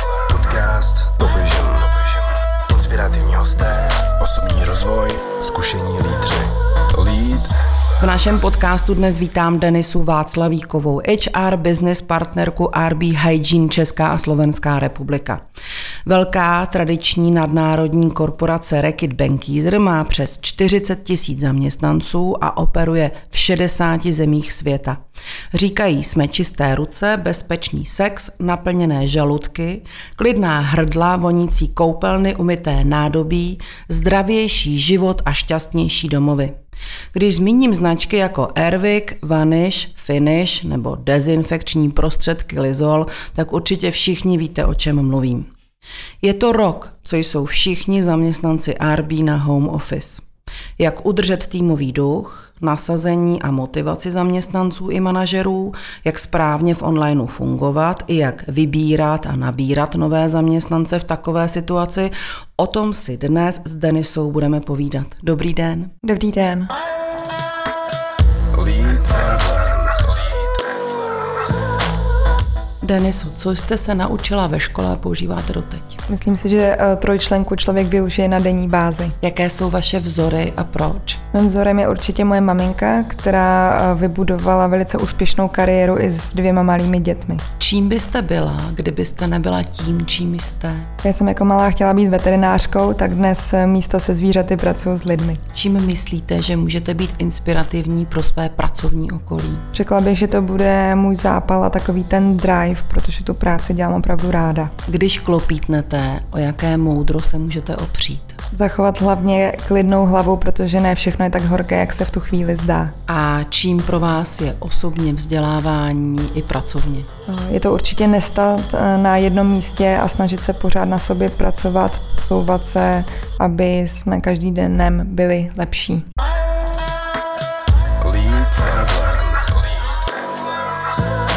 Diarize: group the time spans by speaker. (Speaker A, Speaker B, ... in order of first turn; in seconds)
Speaker A: 0.3-1.9, 2.7-15.4, 16.1-25.0, 25.5-36.5, 37.1-45.5, 46.2-50.2, 50.8-65.9, 68.6-70.0, 72.8-76.0, 79.2-81.2, 87.6-90.9, 95.5-99.7, 104.9-108.4, 113.1-117.1, 128.1-129.2
Speaker B: 66.0-66.7, 76.1-79.2, 81.3-87.4, 91.0-95.4, 99.7-104.7, 108.5-112.9, 117.3-126.0